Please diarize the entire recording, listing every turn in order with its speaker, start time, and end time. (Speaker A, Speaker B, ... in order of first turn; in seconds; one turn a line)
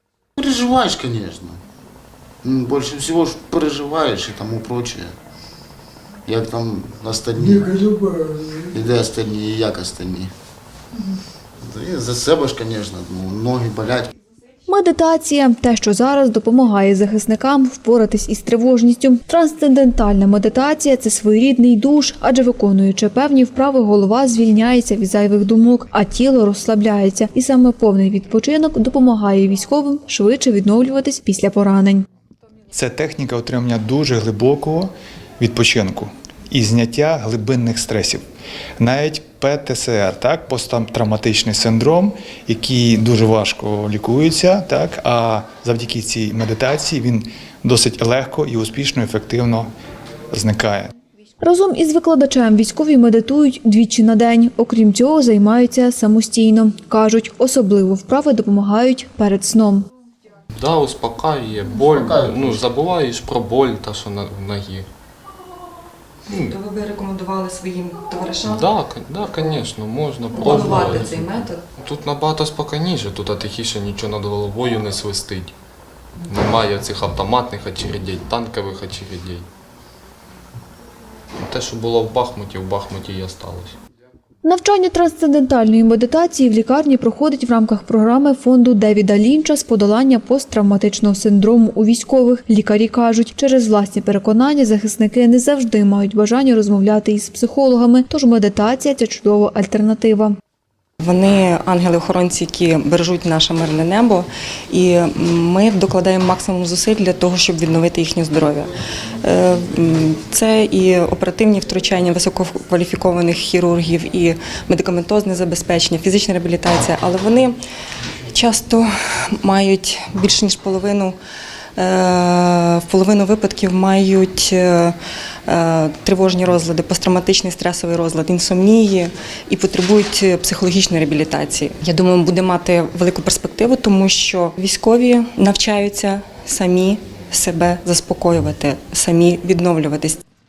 Speaker A: 0.4-1.6
Speaker A: 2.4-5.1
Speaker A: 6.3-8.0
Speaker A: 8.7-10.3
Speaker A: 11.6-14.1
Speaker B: 14.7-32.0
Speaker C: 32.7-38.2
Speaker C: 38.8-49.7
Speaker C: 50.3-50.9
Speaker B: 51.4-59.9
Speaker D: 60.5-64.9
Speaker A: 61.8-62.7
Speaker D: 66.3-66.5
Speaker E: 66.5-68.7
Speaker D: 68.4-75.5
Speaker E: 70.3-71.6
Speaker D: 76.3-79.5
Speaker D: 81.4-83.8
Speaker B: 84.4-100.4
Speaker E: 101.0-117.6
Speaker E: 118.3-121.2
Speaker E: 121.8-125.0
Speaker E: 125.5-140.2